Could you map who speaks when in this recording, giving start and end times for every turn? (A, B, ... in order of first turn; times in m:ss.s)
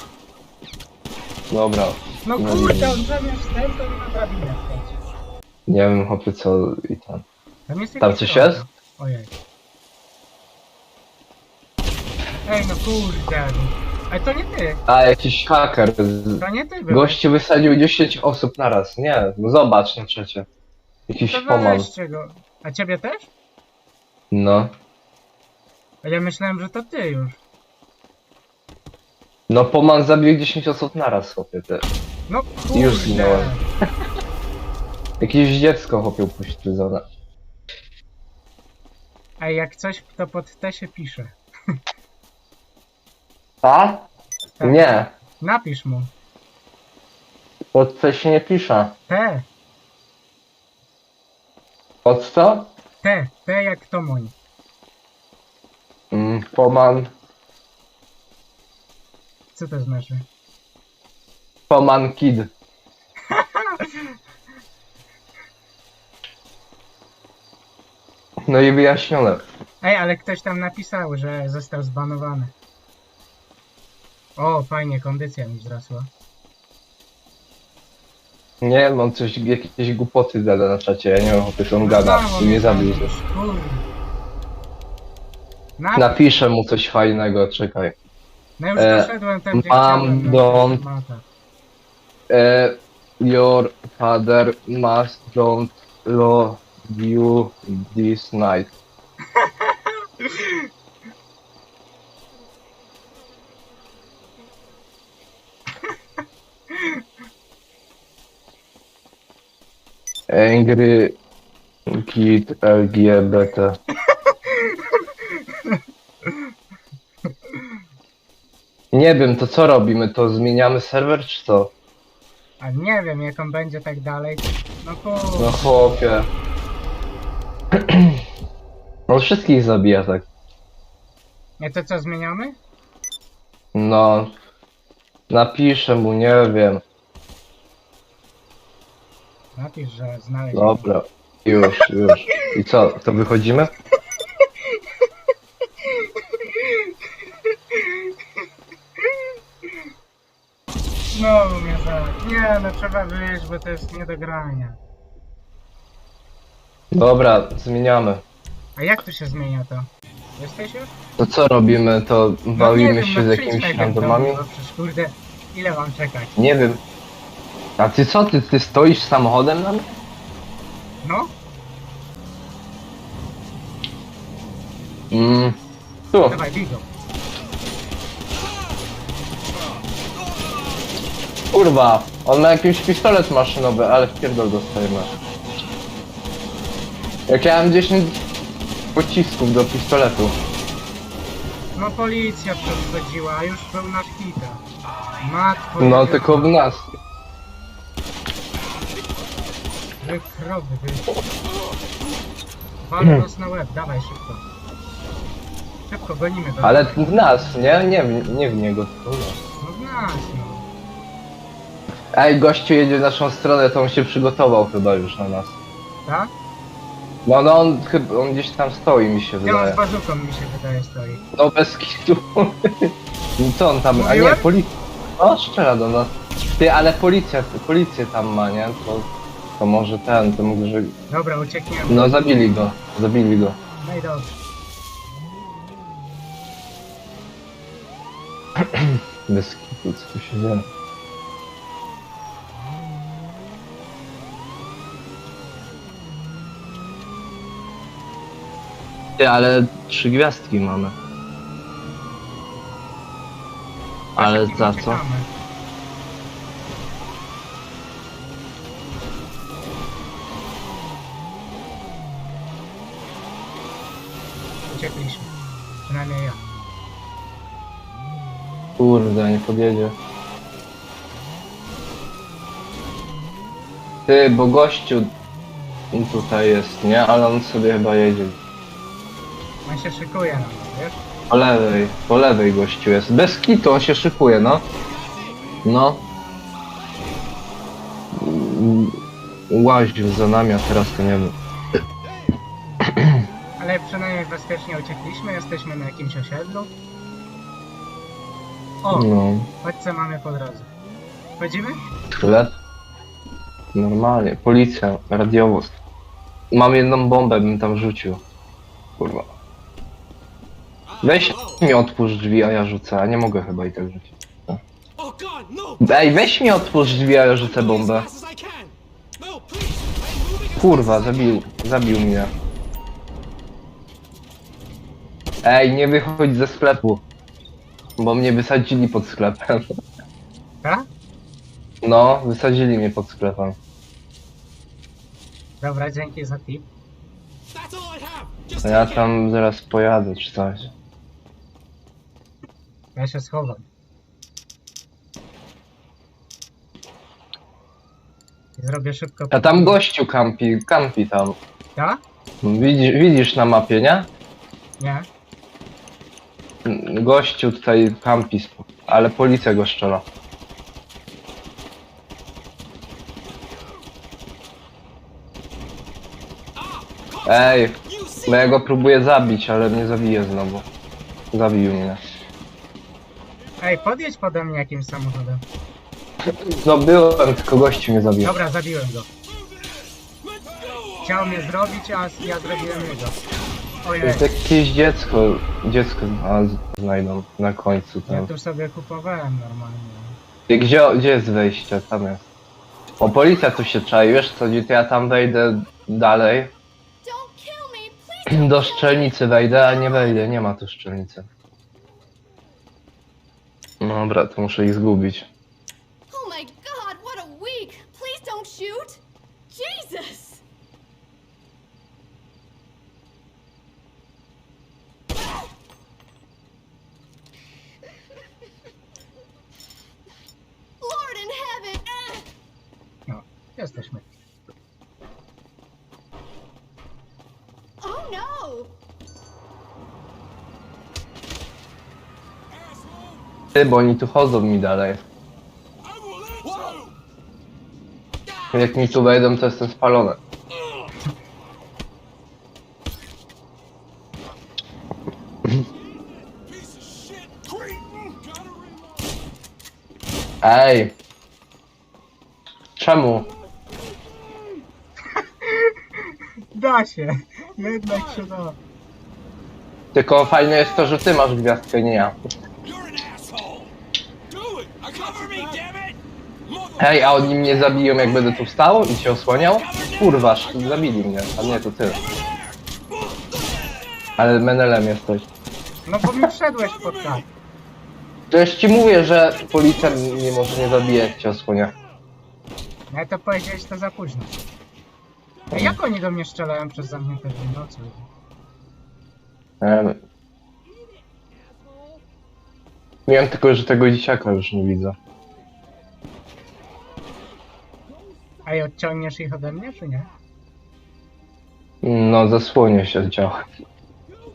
0:01.5-0:03.0 A
0:02.2-0:05.0 B
0:05.7-0:07.2 A
0:07.7-0:09.3 B
0:08.0-0:08.6 A
0:12.4-0:14.8 B
0:14.9-0:20.5 A
0:16.4-0:17.2 B
0:21.1-0:21.9 A
0:21.3-0:23.3 B
0:24.3-0:24.7 A
0:26.0-0:27.4 B
0:29.5-0:31.9 A
0:32.3-0:33.6 B
0:32.7-0:33.5 A
0:35.2-0:37.0 A
0:39.4-0:41.8 B
0:43.6-0:44.1 A
0:44.6-0:46.1 B
0:44.6-0:45.1 A
0:47.7-0:49.0 A
0:49.1-0:49.5 B
0:52.0-0:52.7 A
0:53.0-0:54.3 B
0:56.1-0:57.1 A
0:59.6-1:00.3 B
1:01.7-1:02.5 A
1:03.3-1:04.2 B
1:08.4-1:09.4 A
1:09.8-1:12.5 B
1:14.4-1:16.1 B
1:18.6-1:23.1 A
1:21.8-1:23.9 B
1:25.8-1:26.2 B
1:26.0-1:28.0 A
1:28.6-1:31.2 B
1:28.8-1:30.8 A
1:32.3-1:38.7 A
1:39.4-1:40.7 B
1:46.7-1:47.0 B
1:50.3-1:51.2 A
1:51.9-1:53.8 A
1:54.1-1:56.5 B
1:57.5-1:57.8 B
1:58.9-2:01.7 A
2:02.6-2:06.0 B
2:05.4-2:06.3 A
2:07.7-2:08.2 A
2:09.1-2:10.3 A
2:11.6-2:12.6 B
2:13.7-2:14.3 A
2:15.3-2:16.8 A
2:19.6-2:20.9 B
2:20.5-2:23.7 A
2:25.8-2:27.0 B
2:27.5-2:28.2 B
2:29.0-2:29.7 B
2:31.1-2:34.8 B
2:36.9-2:38.2 A
2:38.8-2:40.9 B
2:41.2-2:44.4 A
2:42.6-2:46.4 B
2:46.4-2:46.8 A
2:47.8-2:49.9 A
2:51.0-2:51.3 B
2:55.1-2:55.6 A
2:56.1-2:56.4 A
2:56.3-2:56.9 B
3:01.5-3:05.2 A
3:07.3-3:08.2 A
3:08.9-3:10.4 A
3:11.8-3:14.6 B
3:15.2-3:16.5 B
3:15.8-3:16.9 A
3:20.0-3:21.1 B
3:22.8-3:24.4 B
3:25.9-3:27.1 B
3:26.6-3:29.4 A
3:29.6-3:30.6 B
3:32.1-3:35.6 A
3:36.1-3:36.3 B
3:37.3-3:39.8 A
3:39.4-3:41.2 B
3:41.4-3:49.1 A
3:44.0-3:44.5 B
3:49.6-3:51.0 A
3:51.1-3:52.3 B
3:51.9-3:53.6 A
3:53.8-3:54.4 B
3:58.6-4:00.7 A
4:09.2-4:11.0 A
4:14.2-4:15.0 A
4:14.2-4:15.3 B
4:24.7-4:25.3 B
4:25.9-4:26.4 B
4:28.8-4:30.0 A
4:34.1-4:35.1 A
4:35.9-4:38.4 A
4:39.6-4:41.0 B
4:41.3-4:44.6 A
4:45.6-4:46.1 A
4:48.1-4:49.0 A
4:49.5-4:51.4 A
4:52.8-4:53.2 A
4:53.6-4:56.7 B
4:58.8-4:59.1 B
4:58.9-4:59.5 A
4:59.6-5:00.7 B
5:01.4-5:01.8 B
5:02.2-5:02.5 A
5:03.7-5:05.8 A
5:06.5-5:08.2 A
5:09.0-5:09.3 A
5:11.0-5:14.6 A
5:15.8-5:18.1 A
5:20.5-5:22.3 A
5:25.4-5:27.0 A
5:28.0-5:29.7 A
5:30.6-5:30.9 B
5:31.8-5:33.6 A
5:35.6-5:36.7 B
5:38.6-5:40.7 A
5:43.0-5:43.7 B
5:48.6-5:49.8 B
5:49.3-5:51.4 A
5:51.8-5:52.0 B
5:52.4-5:54.1 A
5:54.8-5:55.1 B
5:56.6-6:00.0 A
6:07.2-6:10.6 A
6:11.3-6:12.0 A
6:13.6-6:15.4 B
6:16.2-6:18.3 A
6:18.2-6:19.1 B
6:21.0-6:23.2 B
6:23.8-6:24.2 B
6:24.0-6:28.3 A
6:28.1-6:30.2 B
6:30.5-6:32.3 A
6:33.0-6:36.5 A
6:37.0-6:40.3 C
6:38.3-6:41.3 A
6:43.8-6:45.3 A
6:46.1-6:50.4 C
7:00.8-7:02.3 C
7:03.1-7:04.1 B
7:07.8-7:08.7 C
7:13.5-7:15.0 A
7:18.5-7:20.2 A
7:30.4-7:31.0 A
7:32.8-7:33.3 A
7:35.2-7:38.6 B
7:39.9-7:42.2 A
7:46.8-7:52.0 A
7:54.2-7:55.3 A
7:55.9-7:57.3 B
7:58.3-8:01.8 A
8:02.9-8:04.4 B
8:05.5-8:05.8 A
8:05.5-8:08.1 B
8:09.6-8:10.0 A
8:13.1-8:15.0 A
8:18.4-8:20.1 B
8:21.8-8:23.4 A